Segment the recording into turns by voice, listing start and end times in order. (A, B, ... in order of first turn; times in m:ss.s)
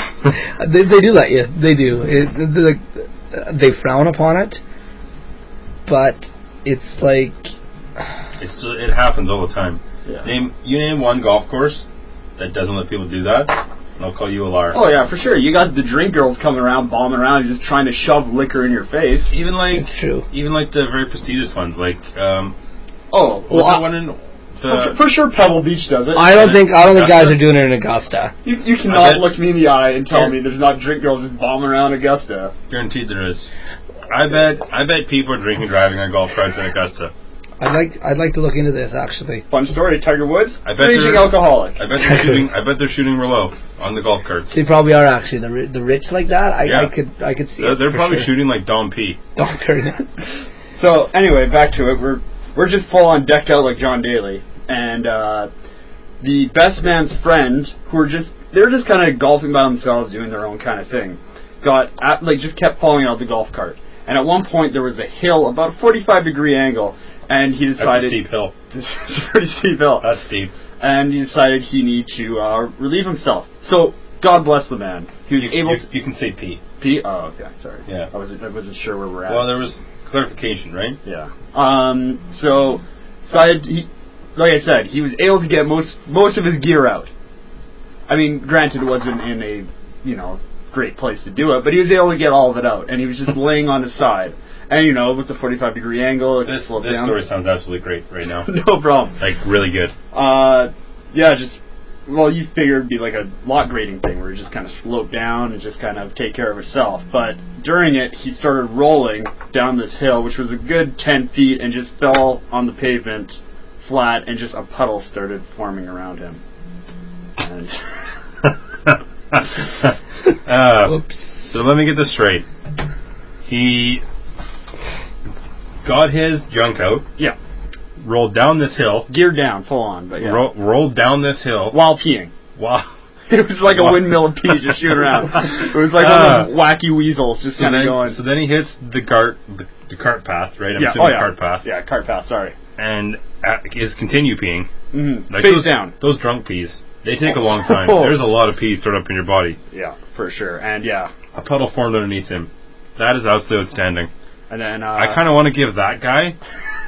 0:00.6-0:04.6 A
0:05.9-0:07.5 A
0:08.4-0:11.8 B
0:12.4-0:14.8 B
0:14.7-0:19.4 C
0:19.3-0:22.6 B
0:19.8-0:20.3 A
0:23.1-0:23.9 C
0:23.5-0:25.0 B
0:24.7-0:26.4 C
0:26.2-0:28.3 A
0:26.3-0:27.4 B
0:28.4-0:32.5 C
0:28.9-0:29.3 B
0:32.7-0:33.5 B
0:34.1-0:37.1 B
0:37.6-0:39.4 A
0:39.5-0:41.8 C
0:40.6-0:44.5 B
0:44.5-0:48.3 A
0:46.7-0:46.9 B
0:47.6-0:49.2 B
0:49.4-0:50.0 A
0:50.8-0:55.5 C
0:56.2-1:10.1 C
1:07.8-1:08.5 B
1:10.0-1:10.5 B
1:10.8-1:15.8 C
1:15.3-1:16.6 B
1:16.8-1:19.5 C
1:19.3-1:21.0 B
1:21.0-1:27.1 C
1:28.1-1:37.2 C
1:36.4-1:38.5 B
1:38.5-1:39.2 C
1:39.2-1:39.9 B
1:40.1-1:56.4 C
1:57.4-1:57.7 C
1:58.9-2:02.4 B
2:03.4-2:04.0 B
2:05.8-2:07.0 B
2:08.0-2:09.1 B
2:09.1-2:10.4 C
2:10.2-2:11.8 B
2:11.7-2:12.3 C
2:12.6-2:12.9 B
2:13.3-2:18.2 C
2:13.7-2:14.6 B
2:16.0-2:16.5 B
2:17.6-2:21.7 B
2:20.8-2:22.6 C
2:22.8-2:24.7 B
2:24.9-2:25.9 C
2:25.3-2:29.6 B
2:27.5-2:28.2 C
2:29.7-2:31.1 C
2:31.3-2:34.1 B
2:34.5-2:35.2 C
2:35.0-2:36.4 B